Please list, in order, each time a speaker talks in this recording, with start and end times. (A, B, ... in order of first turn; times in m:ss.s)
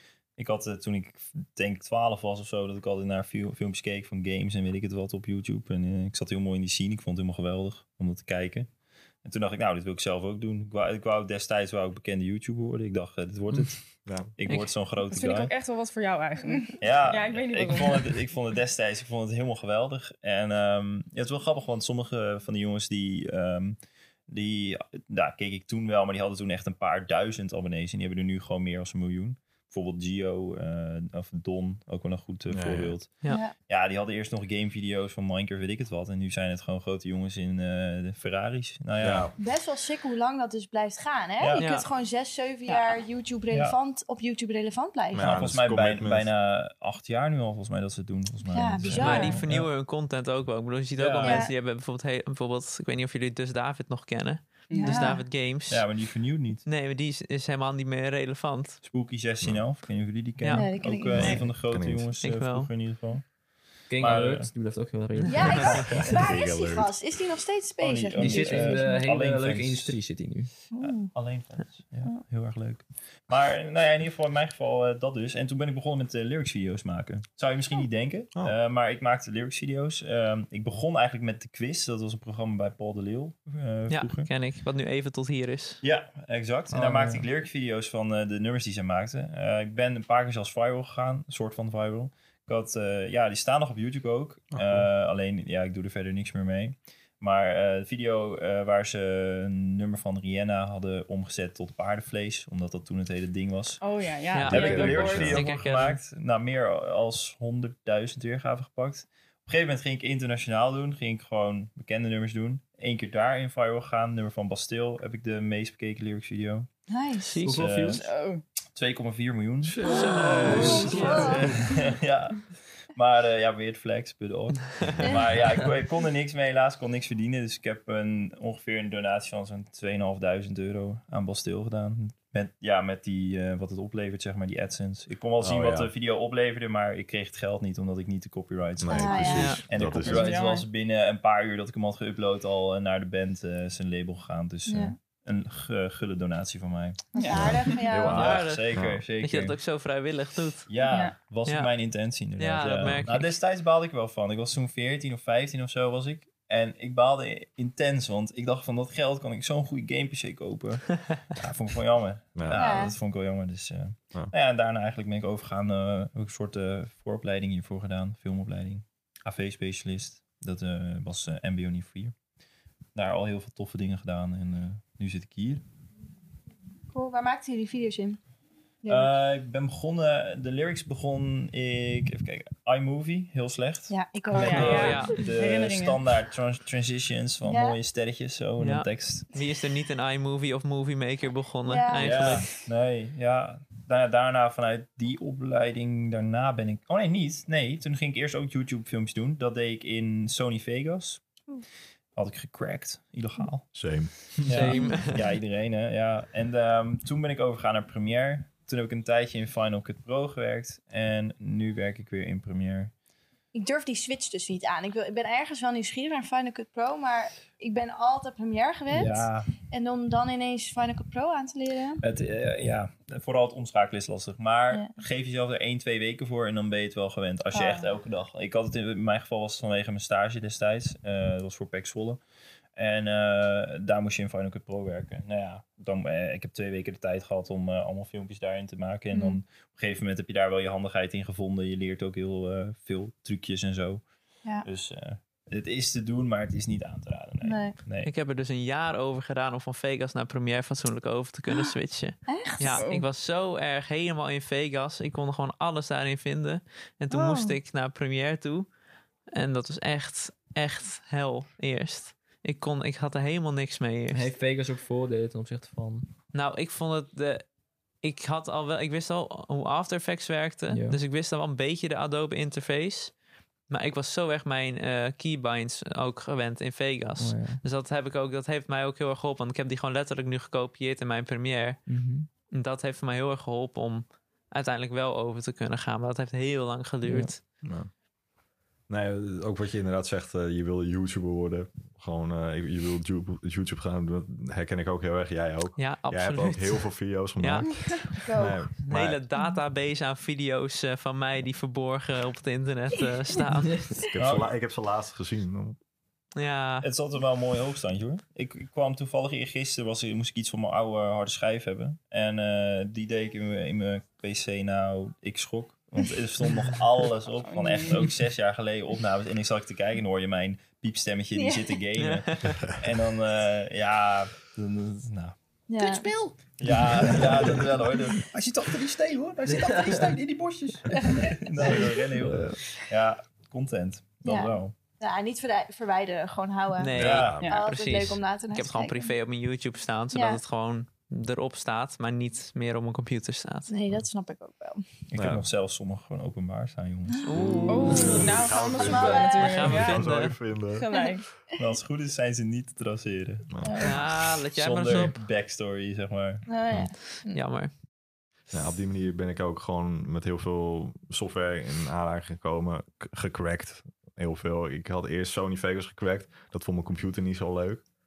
0:00.4-0:15.5 A
0:14.0-0:14.3 B
0:14.5-0:14.8 C
0:15.0-0:18.2 D
0:16.8-0:39.3 A
0:32.5-0:33.0 B
0:33.2-0:33.5 C
0:33.3-0:33.5 E
0:39.0-0:39.3 B
0:39.4-0:45.5 E
0:41.4-0:41.6 A
0:41.6-0:41.9 C
0:42.6-0:43.0 C
0:43.5-0:43.8 A
0:45.1-0:46.3 B
0:45.2-0:49.7 A
0:48.5-0:49.4 E
0:48.8-0:56.0 C
0:51.0-0:51.4 A
0:51.2-0:51.5 E
0:54.7-0:55.2 D
0:54.8-0:55.3 E
0:55.7-0:56.6 A
0:56.6-0:58.8 C
0:58.8-1:03.3 A
1:00.4-1:00.7 C
1:00.5-1:01.4 E
1:01.1-1:02.1 B
1:02.2-1:02.7 C
1:03.9-1:06.2 F
1:04.0-1:04.5 A
1:05.2-1:05.7 C
1:05.2-1:08.9 E
1:05.6-1:06.9 B
1:07.8-1:10.0 A
1:08.2-1:10.5 F
1:10.8-1:11.1 E
1:10.8-1:24.3 A
1:23.9-1:25.8 C
1:25.8-1:43.8 A
1:26.7-1:27.3 F
1:34.5-1:34.9 B
1:43.8-1:45.4 D
1:44.3-1:46.0 C
1:44.4-1:56.7 A
1:44.5-1:45.5 B
1:56.9-1:57.5 E
1:57.2-1:58.0 C
1:57.4-1:58.0 F
1:57.5-1:58.0 A
1:57.9-1:58.4 D
1:58.7-2:27.5 A
1:59.8-2:01.5 C
1:59.9-2:01.2 F
1:59.9-2:01.4 E
2:04.8-2:05.2 B
2:05.0-2:05.3 E
2:15.4-2:15.9 B
2:18.8-2:20.2 B
2:18.9-2:20.6 E
2:19.3-2:19.6 C
2:20.0-2:20.6 D
2:24.7-2:24.9 E
2:27.1-2:27.8 D
2:27.1-2:28.4 E
2:27.3-2:29.0 B
2:28.0-2:29.6 A
2:28.0-2:30.7 C
2:30.7-2:52.2 A
2:30.8-2:31.2 D
2:31.4-2:33.3 C
2:32.8-2:33.1 B
2:42.4-2:42.8 B
2:42.5-2:43.0 E
2:52.9-2:55.6 A
2:56.9-2:58.2 E
2:58.8-2:59.1 E
2:58.9-3:09.3 A
3:03.9-3:05.3 E
3:04.3-3:06.0 D
3:04.4-3:05.2 C
3:07.4-3:07.8 E
3:08.6-3:12.6 C
3:11.7-3:12.6 E
3:12.0-3:21.3 A
3:22.1-3:32.9 A
3:23.7-3:24.3 B
3:24.4-3:24.9 F
3:24.5-3:25.2 C
3:24.7-3:25.1 E
3:33.5-3:42.0 E
3:38.9-3:39.5 A
3:42.0-3:52.2 A
3:47.5-3:47.9 E
3:52.7-4:04.1 A
3:59.1-3:59.4 E
4:04.6-4:08.1 A
4:07.4-4:07.8 E
4:08.0-4:18.7 C
4:12.3-4:12.8 E
4:12.8-4:13.0 D
4:17.1-4:17.6 E
4:19.3-4:24.3 C
4:24.1-4:26.1 F
4:26.3-4:27.5 C
4:28.0-4:33.2 C
4:30.7-4:31.0 F
4:33.7-4:41.9 C
4:37.2-4:37.6 F
4:41.9-4:42.3 F
4:42.5-4:47.4 C
4:47.0-4:47.3 F
4:47.6-4:47.9 B
4:48.9-4:59.2 B
4:55.8-4:58.3 C
4:57.9-4:58.7 E
4:58.8-5:04.0 C
5:03.9-5:05.8 B
5:04.2-5:04.5 A
5:06.4-5:06.9 C
5:06.8-5:34.8 A
5:17.4-5:18.1 D
5:21.3-5:21.8 E
5:21.9-5:22.8 C
5:25.7-5:26.1 E
5:29.5-5:30.0 F
5:30.9-5:31.9 E
5:32.2-5:32.4 F
5:34.2-5:39.1 E
5:36.8-5:43.7 C
5:36.9-5:37.5 B
5:37.0-5:37.4 A
5:40.1-5:40.4 E
5:43.7-5:45.0 E
5:45.1-5:47.3 A
5:45.1-5:45.4 B
5:47.2-5:48.4 C
5:47.3-5:49.8 E
5:47.4-5:50.9 B
5:47.7-5:51.3 D
5:49.3-5:50.6 C
5:51.6-5:56.4 A
5:53.5-5:54.0 B
5:53.6-5:54.0 E
5:53.8-5:55.2 C
5:56.5-5:57.4 E
5:57.2-5:57.7 C
5:58.5-6:07.8 B